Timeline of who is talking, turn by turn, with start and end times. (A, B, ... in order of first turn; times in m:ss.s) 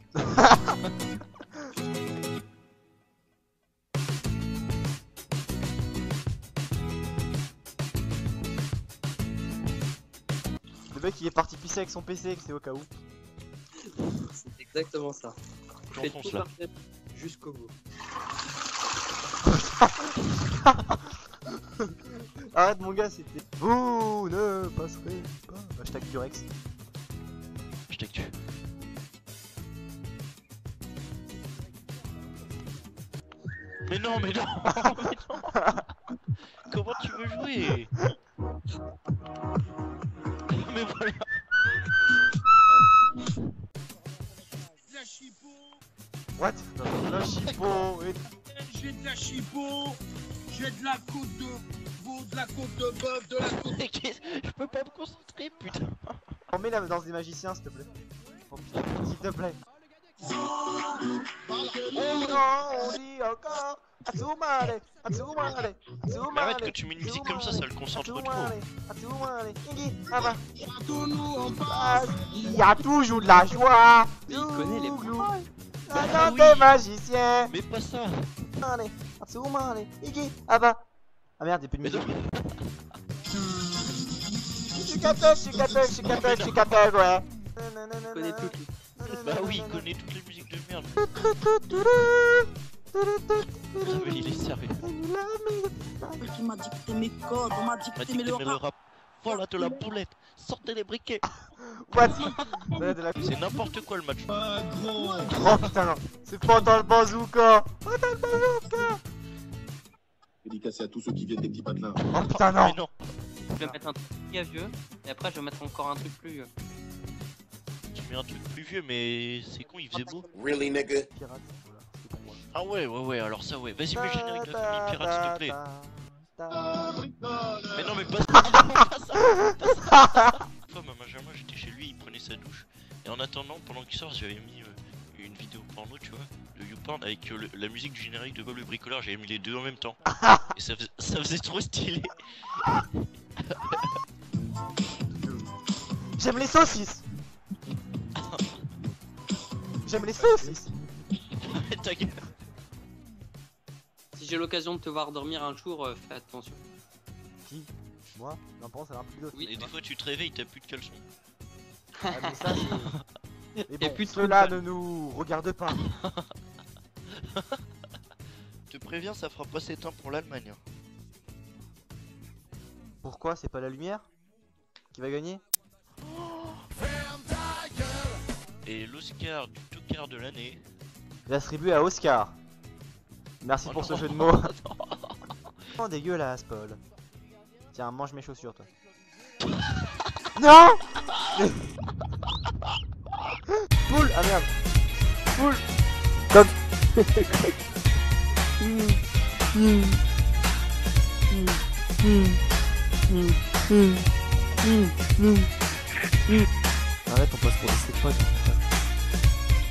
0:00.2-0:00.8 A
0:10.9-0:12.9 A
0:13.9-0:15.4 B
0:15.9-0:17.7 B
0:15.9-0:16.4 C
0:19.4-0:21.0 A
0:22.5-0:26.5 A
0:27.9-0:28.3 C
0:33.8-0:35.5 C
0:35.5-0:35.8 A
0:36.6-0:37.9 C
0:40.5-0:41.5 C
0:44.8-0:45.7 D
0:46.4-0:48.2 A
0:46.9-0:47.9 C
0:48.5-0:53.8 D
0:53.5-0:56.3 C
0:56.5-0:57.9 A
0:58.5-0:59.6 A
0:58.7-0:59.1 C
1:00.2-1:02.8 D
1:01.9-1:10.4 A
1:06.3-1:08.6 C
1:10.1-1:12.7 D
1:11.6-1:17.5 A
1:14.3-1:15.3 B
1:15.9-1:16.7 C
1:17.5-1:18.3 C
1:18.6-1:20.8 A
1:21.4-1:22.1 A
1:21.8-1:22.6 C
1:24.7-1:29.9 A
1:25.2-1:25.6 D
1:26.0-1:26.7 C
1:28.1-1:28.7 B
1:29.0-1:31.1 C
1:31.0-1:36.2 A
1:33.8-1:34.8 C
1:36.2-1:38.6 E
1:37.9-1:41.2 C
1:41.6-1:43.3 A
1:42.0-1:44.3 C
1:44.4-1:45.3 F
1:44.5-1:44.8 D
1:45.3-1:45.6 C
1:45.3-1:49.0 A
1:50.4-1:52.0 F
1:52.0-1:53.0 C
1:52.1-1:52.8 A
1:53.6-1:56.5 B
1:57.9-2:00.3 C
2:00.4-2:01.0 F
2:00.7-2:02.4 A
2:02.5-2:05.6 C
2:03.9-2:06.7 A
2:07.0-2:07.7 F
2:07.7-2:20.0 C
2:20.1-2:20.5 A
2:20.5-2:22.9 C
2:23.5-2:24.0 C
2:26.2-2:27.0 A
2:28.2-2:28.5 C
2:29.8-2:30.7 A
2:31.3-2:32.2 C
2:34.1-2:36.6 B
2:37.4-2:39.7 A
2:39.4-2:41.0 C
2:42.0-2:42.6 B
2:42.1-2:43.0 A
2:43.6-2:44.6 B
2:43.7-2:45.8 A
2:45.8-2:46.3 C
2:47.2-2:47.6 C
2:48.7-2:50.6 C
2:53.0-2:54.0 A
2:54.9-2:55.4 A
2:56.2-2:56.6 C
2:58.6-3:00.6 C
3:01.2-3:02.4 A
3:03.4-3:04.5 A
3:03.6-3:05.3 C
3:05.8-3:06.8 A
3:07.7-3:08.7 A
3:09.4-3:10.0 C
3:10.4-3:11.7 A
3:13.8-3:14.5 A
3:18.6-3:19.0 B
3:19.5-3:19.9 A
3:21.3-3:21.6 B
3:23.1-3:23.3 B
3:24.6-3:25.4 B
3:27.1-3:28.6 A